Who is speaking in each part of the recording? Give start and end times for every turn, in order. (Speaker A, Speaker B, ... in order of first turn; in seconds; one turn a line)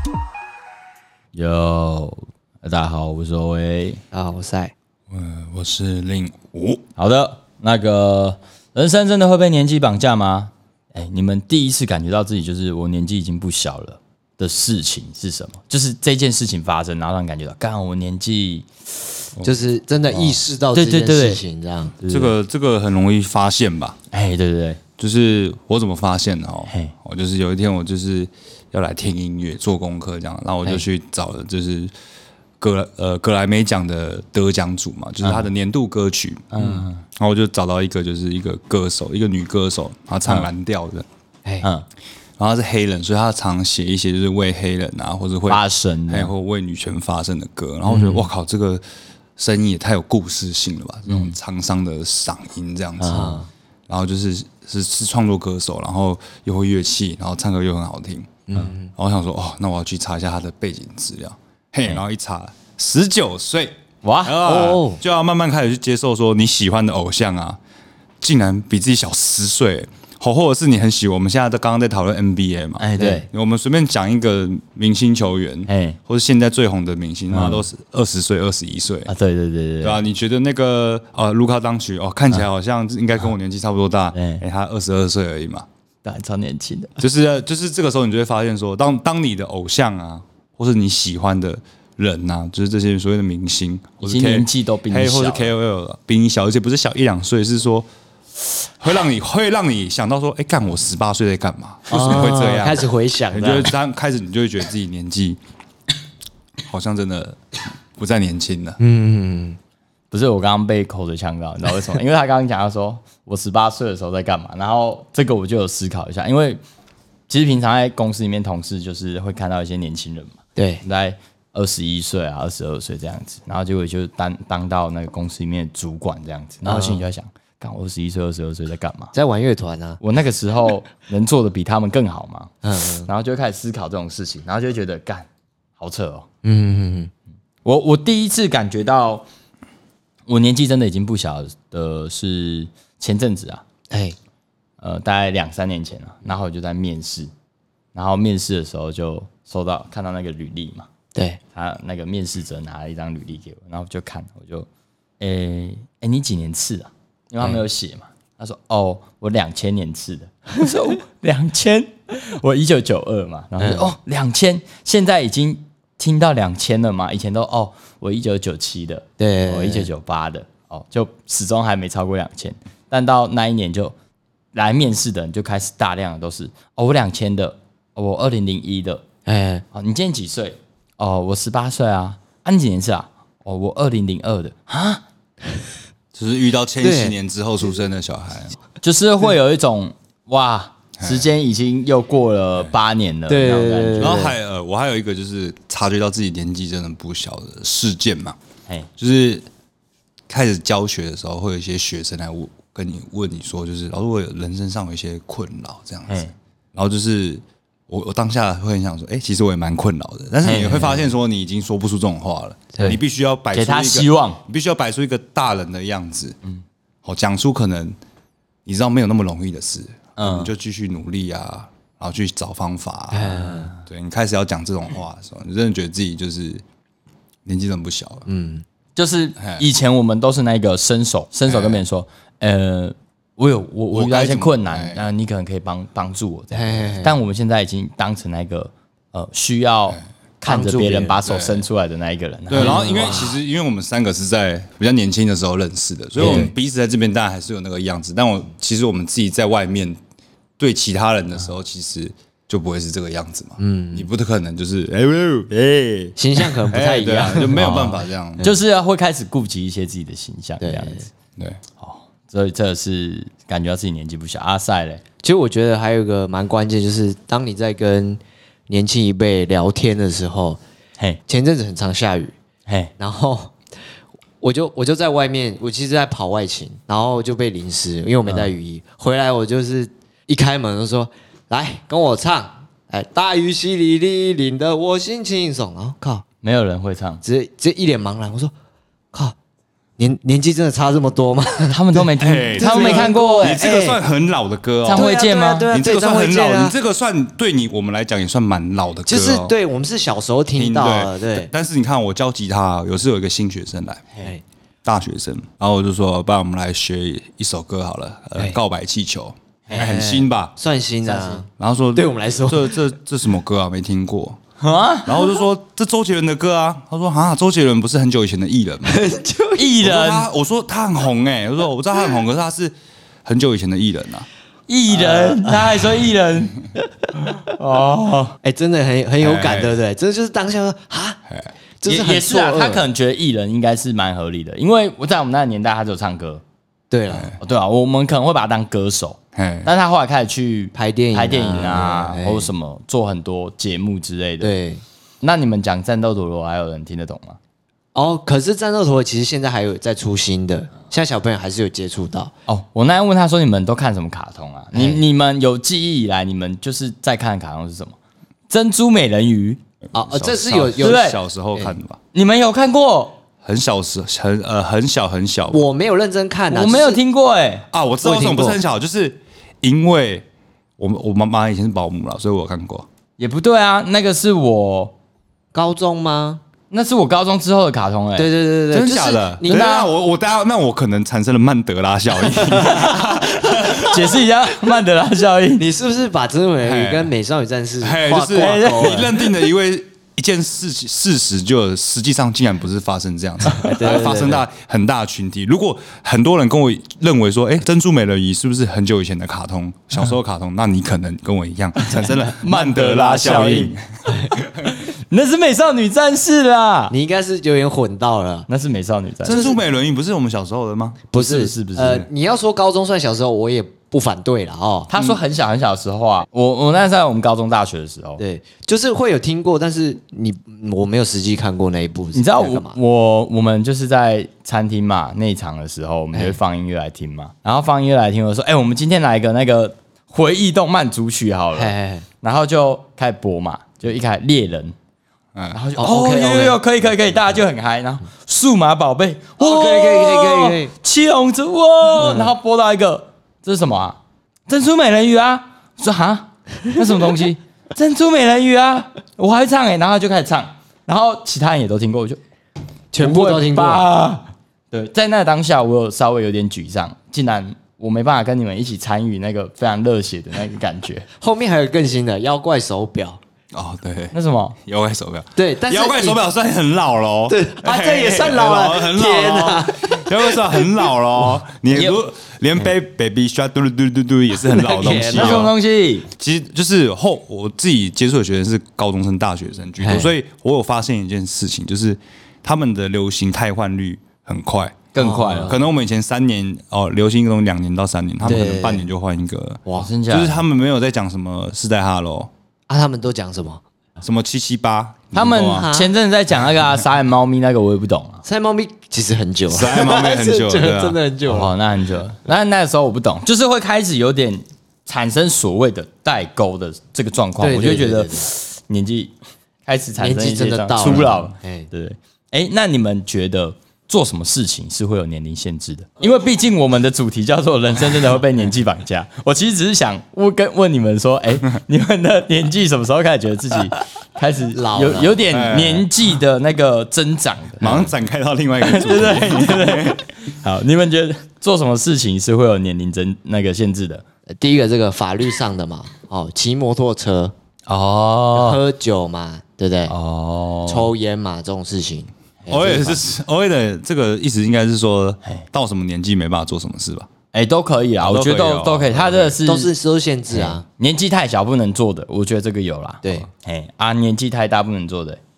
Speaker A: 1.3-4.0
Speaker B: 4.1-4.7
Speaker C: 5.1-6.8
Speaker A: 7.0-18.7
Speaker B: 19.4-22.0
Speaker A: 20.1-21.4
Speaker A: 22.0-22.4
Speaker C: 22.1-24.0
Speaker A: 24.1-24.8
Speaker C: 25.0-31.9
Speaker A: 26.7-26.9
Speaker C: 32.6-41.0
Speaker A: 35.2-35.5
Speaker A: 36.5-37.0
Speaker C: 42.4-48.8
Speaker A: 45.5-46.3
Speaker B: 47.9-48.3
Speaker C: 49.4-53.3
Speaker A: 51.1-51.4
Speaker A: 53.0-53.5
Speaker B: 53.1-53.5
Speaker C: 53.9-67.6
Speaker B: 58.5-58.9
Speaker A: 64.0-64.4
Speaker B: 64.4-65.0
Speaker C: 68.2-79.1
Speaker A: 72.8-73.3
Speaker A: 75.7-76.0
Speaker A: 77.3-77.7
Speaker A: 79.1-80.0
Speaker C: 79.8-85.7
Speaker A: 84.1-84.4
Speaker A: 86.0-86.9
Speaker C: 87.0-97.9
Speaker A: 94.0-95.5
Speaker C: 98.8-105.4
Speaker B: 101.9-103.7
Speaker C: 106.7-107.4
Speaker C: 108.0-108.8
Speaker B: 108.8-109.6
Speaker A: 110.1-116.6
Speaker A: 117.3-129.1
Speaker B: 120.6-120.8
Speaker B: 126.6-127.0
Speaker B: 129.1-130.0
Speaker A: 130.0-132.5
Speaker B: 132.6-133.1
Speaker A: 133.1-135.3
Speaker A: 135.8-136.2
Speaker B: 136.4-137.1
Speaker A: 137.6-139.2
Speaker A: 140.3-143.6
Speaker B: 143.9-144.2
Speaker A: 144.8-147.3
Speaker A: 147.9-150.9
Speaker B: 151.2-151.4
Speaker A: 151.6-154.7
Speaker A: 155.2-173.9
Speaker B: 163.6-163.9
Speaker B: 169.2-169.9
Speaker A: 174.5-179.0
Speaker B: 179.3-179.6
Speaker A: 179.7-185.0
Speaker C: 186.1-188.6
Speaker B: 186.8-187.2
Speaker A: 188.8-194.2
Speaker C: 191.0-191.3
Speaker B: 193.3-194.4
Speaker C: 194.0-198.4
Speaker C: 199.0-199.4
Speaker C: 200.3-206.2
Speaker A: 206.1-206.3
Speaker C: 206.8-216.4
Speaker A: 210.4-211.1
Speaker A: 213.5-214.4
Speaker C: 217.0-217.9
Speaker C: 218.7-226.6
Speaker A: 220.2-220.5
Speaker B: 223.1-223.7
Speaker C: 227.5-228.3
Speaker B: 228.3-228.6
Speaker A: 228.9-243.1
Speaker C: 229.4-229.7
Speaker C: 231.5-231.8
Speaker C: 233.9-235.1
Speaker B: 236.5-237.2
Speaker B: 240.4-241.2
Speaker C: 241.3-241.7
Speaker C: 242.5-250.0
Speaker B: 242.5-243.4
Speaker B: 246.2-246.5
Speaker A: 246.2-246.5
Speaker C: 250.6-255.5
Speaker B: 253.6-254.1
Speaker A: 255.5-256.2
Speaker B: 256.2-257.9
Speaker C: 256.7-258.5
Speaker A: 257.6-261.1
Speaker B: 260.6-261.1
Speaker A: 261.8-265.0
Speaker B: 265.2-270.6
Speaker B: 271.3-272.3
Speaker A: 272.7-272.9
Speaker B: 273.0-273.5
Speaker B: 274.4-286.2
Speaker A: 286.4-287.2
Speaker B: 287.2-288.5
Speaker B: 290.0-294.0
Speaker A: 291.7-293.7
Speaker C: 292.2-295.1
Speaker A: 294.8-295.7
Speaker B: 294.9-296.8
Speaker C: 295.7-299.5
Speaker B: 299.1-301.5
Speaker C: 300.5-304.1
Speaker C: 304.9-310.5
Speaker B: 309.7-312.8
Speaker A: 311.1-311.4
Speaker C: 311.6-314.4
Speaker A: 314.6-315.1
Speaker C: 315.1-319.0
Speaker B: 318.9-319.7
Speaker A: 319.6-320.3
Speaker C: 319.8-322.7
Speaker C: 323.2-324.3
Speaker A: 324.7-326.6
Speaker B: 324.9-326.1
Speaker A: 327.5-328.4
Speaker B: 328.4-331.2
Speaker C: 329.2-329.8
Speaker B: 331.8-332.9
Speaker A: 331.9-336.4
Speaker B: 336.9-337.4
Speaker C: 337.1-337.4
Speaker A: 337.4-344.5
Speaker C: 339.4-339.7
Speaker B: 340.7-342.5
Speaker B: 344.4-344.8
Speaker A: 345.2-347.4
Speaker B: 347.9-352.3
Speaker A: 352.5-358.0
Speaker B: 354.7-355.0
Speaker A: 358.5-359.6
Speaker B: 359.9-361.8
Speaker C: 359.9-362.0
Speaker A: 360.8-361.2
Speaker A: 362.1-363.1
Speaker C: 363.4-365.6
Speaker B: 365.5-367.0
Speaker A: 366.5-367.6
Speaker C: 367.7-370.3
Speaker B: 368.0-368.6
Speaker C: 370.8-372.9
Speaker A: 373.2-374.9
Speaker B: 375.5-376.4
Speaker A: 376.7-378.3
Speaker B: 378.2-379.7
Speaker C: 378.7-384.2
Speaker A: 379.5-379.9
Speaker B: 382.3-382.8
Speaker A: 382.7-383.0
Speaker A: 383.7-385.7
Speaker B: 385.6-389.2
Speaker C: 386.6-387.1
Speaker C: 387.8-404.5
Speaker A: 388.3-389.1
Speaker B: 393.6-394.4
Speaker A: 402.3-403.8
Speaker A: 404.7-406.9
Speaker B: 406.9-408.5
Speaker A: 408.5-409.5
Speaker B: 409.2-409.6
Speaker C: 409.2-411.1
Speaker B: 411.1-414.9
Speaker A: 411.1-412.1
Speaker A: 414.9-418.2
Speaker B: 418.2-422.8
Speaker A: 422.1-434.8
Speaker B: 426.1-426.4
Speaker B: 431.5-432.1
Speaker A: 435.5-452.2
Speaker B: 435.8-436.6
Speaker B: 439.4-440.7
Speaker B: 442.0-442.3
Speaker B: 452.9-453.9
Speaker A: 453.0-461.1
Speaker B: 461.2-463.2
Speaker C: 463.5-475.5
Speaker A: 464.1-464.6
Speaker B: 465.4-466.2
Speaker B: 467.3-470.8
Speaker B: 474.4-475.5
Speaker A: 475.0-476.1
Speaker C: 476.2-484.9
Speaker B: 479.8-480.1
Speaker A: 484.9-485.6
Speaker B: 485.0-485.6
Speaker C: 485.5-492.3
Speaker B: 488.2-488.9
Speaker B: 489.7-489.9
Speaker A: 489.8-490.4
Speaker B: 492.7-493.6
Speaker C: 494.0-495.7
Speaker A: 495.1-498.2
Speaker B: 495.3-495.9
Speaker B: 498.2-501.5
Speaker C: 499.5-501.0
Speaker A: 501.3-509.1
Speaker B: 507.4-508.3
Speaker A: 509.6-527.9
Speaker B: 510.0-511.7
Speaker B: 524.5-525.2
Speaker C: 525.3-525.9
Speaker C: 527.6-530.0
Speaker A: 528.6-534.0
Speaker B: 534.3-537.3
Speaker A: 537.7-538.6
Speaker B: 538.3-540.0
Speaker A: 539.9-540.9
Speaker B: 540.7-543.0
Speaker C: 542.5-547.1
Speaker A: 547.3-549.7
Speaker C: 548.0-549.4
Speaker B: 549.4-550.6
Speaker A: 550.3-555.2
Speaker B: 553.0-553.3